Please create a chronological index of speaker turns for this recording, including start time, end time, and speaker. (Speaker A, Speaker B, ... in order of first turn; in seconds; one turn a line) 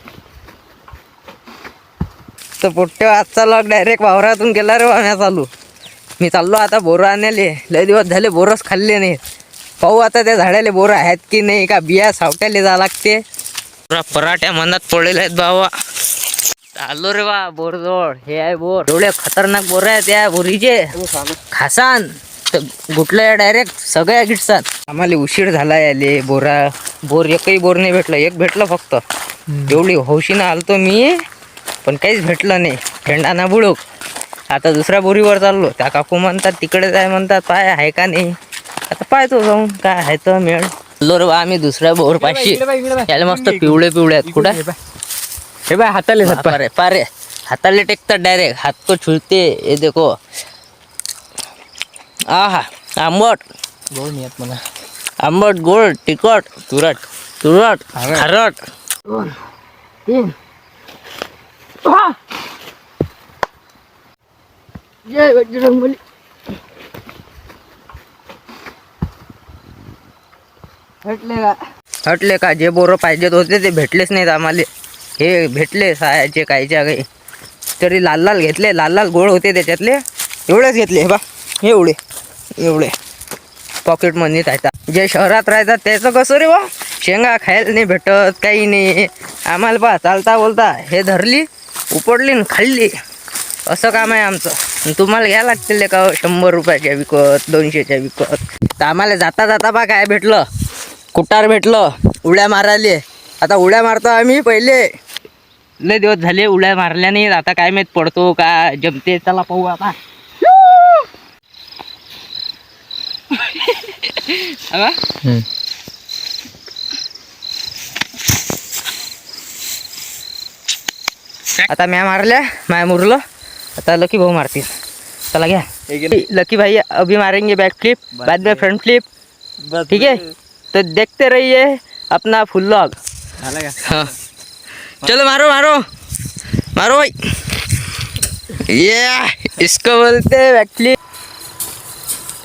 Speaker A: 2.6-5.5
Speaker A: 6.2-9.2
Speaker A: 9.8-13.2
Speaker A: 13.9-15.7
Speaker A: 16.8-20.9
Speaker A: 21.5-29.0
Speaker A: 29.6-31.2
Speaker A: 31.9-33.8
Speaker A: 34.5-38.3
Speaker A: 38.9-44.6
Speaker B: 42.2-44.8
Speaker B: 45.7-46.6
Speaker A: 46.2-50.1
Speaker A: 52.3-53.4
Speaker B: 53.9-54.6
Speaker A: 55.2-58.6
Speaker B: 58.0-58.3
Speaker A: 65.1-66.0
Speaker A: 71.0-77.1
Speaker A: 77.8-82.0
Speaker A: 82.6-82.9
Speaker A: 83.8-92.9
Speaker A: 93.7-100.4
Speaker A: 101.1-104.8
Speaker A: 105.8-110.0
Speaker A: 113.3-115.1
Speaker A: 121.6-123.2
Speaker A: 123.8-124.7
Speaker A: 125.3-129.1
Speaker B: 125.9-126.2
Speaker B: 128.2-128.7
Speaker B: 129.7-130.2
Speaker A: 129.9-133.0
Speaker B: 133.4-134.0
Speaker A: 133.8-134.1
Speaker A: 135.0-135.8
Speaker A: 136.8-137.6
Speaker A: 138.5-141.0